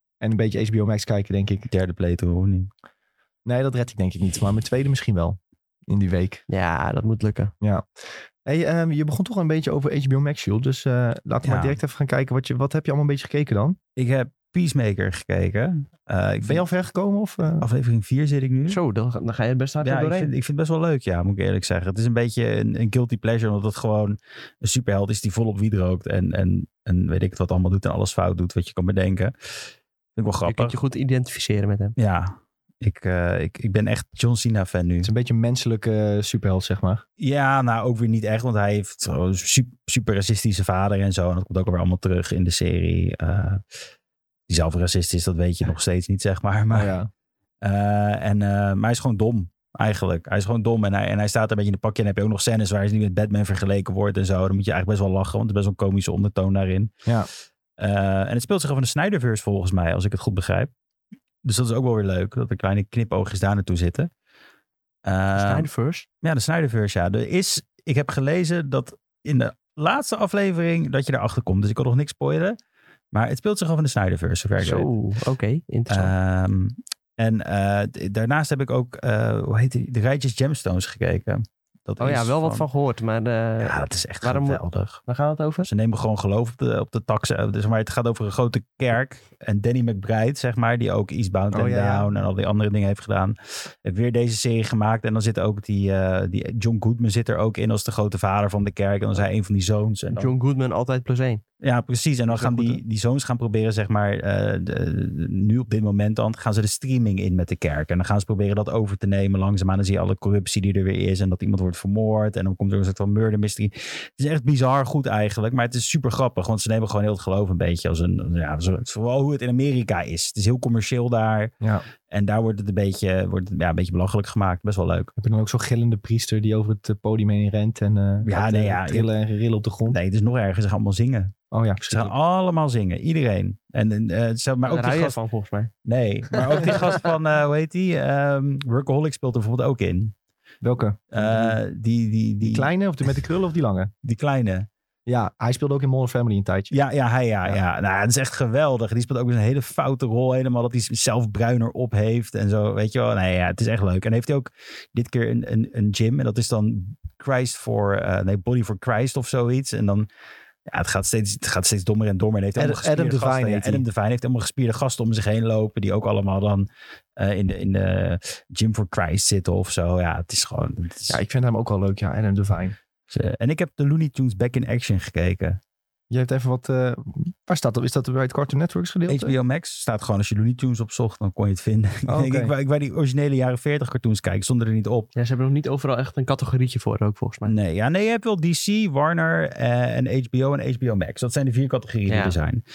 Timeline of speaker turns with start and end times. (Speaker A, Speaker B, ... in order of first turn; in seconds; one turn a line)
Speaker A: 0.2-1.7
Speaker B: 1.7-2.7
Speaker A: 3.5-6.4
Speaker C: 6.5-7.5
Speaker A: 8.4-13.8
Speaker B: 11.4-11.8
Speaker B: 14.0-16.6
Speaker A: 16.4-17.7
Speaker B: 17.6-18.8
Speaker C: 18.7-20.3
Speaker B: 19.8-29.3
Speaker B: 30.2-30.8
Speaker C: 30.5-32.0
Speaker B: 32.0-35.1
Speaker A: 35.0-37.0
Speaker B: 37.2-43.6
Speaker B: 44.5-47.0
Speaker A: 46.7-47.1
Speaker B: 47.6-56.9
Speaker B: 57.8-60.7
Speaker B: 61.4-64.1
Speaker B: 65.0-65.7
Speaker C: 65.3-66.1
Speaker B: 66.2-72.6
Speaker B: 73.1-74.9
Speaker C: 74.6-76.1
Speaker B: 75.9-82.7
Speaker C: 82.0-85.7
Speaker B: 83.6-85.0
Speaker B: 85.6-100.3
Speaker A: 91.5-92.1
Speaker C: 100.2-101.4
Speaker B: 101.6-121.5
Speaker C: 102.3-102.8
Speaker A: 121.6-121.9
Speaker B: 122.1-125.1
Speaker A: 125.2-130.0
Speaker B: 128.2-129.1
Speaker B: 129.9-131.3
Speaker A: 131.5-132.1
Speaker B: 131.9-135.2
Speaker C: 134.7-135.7
Speaker B: 135.8-140.1
Speaker C: 136.4-137.0
Speaker A: 140.6-141.6
Speaker B: 141.1-142.7
Speaker A: 142.4-143.9
Speaker B: 144.0-144.7
Speaker A: 145.1-146.8
Speaker B: 146.7-160.1
Speaker B: 160.7-171.2
Speaker A: 162.6-163.8
Speaker A: 171.1-172.8
Speaker B: 173.1-175.6
Speaker A: 176.1-179.3
Speaker B: 179.1-185.1
Speaker A: 182.1-182.5
Speaker C: 185.2-187.5
Speaker B: 187.4-192.6
Speaker C: 192.1-192.4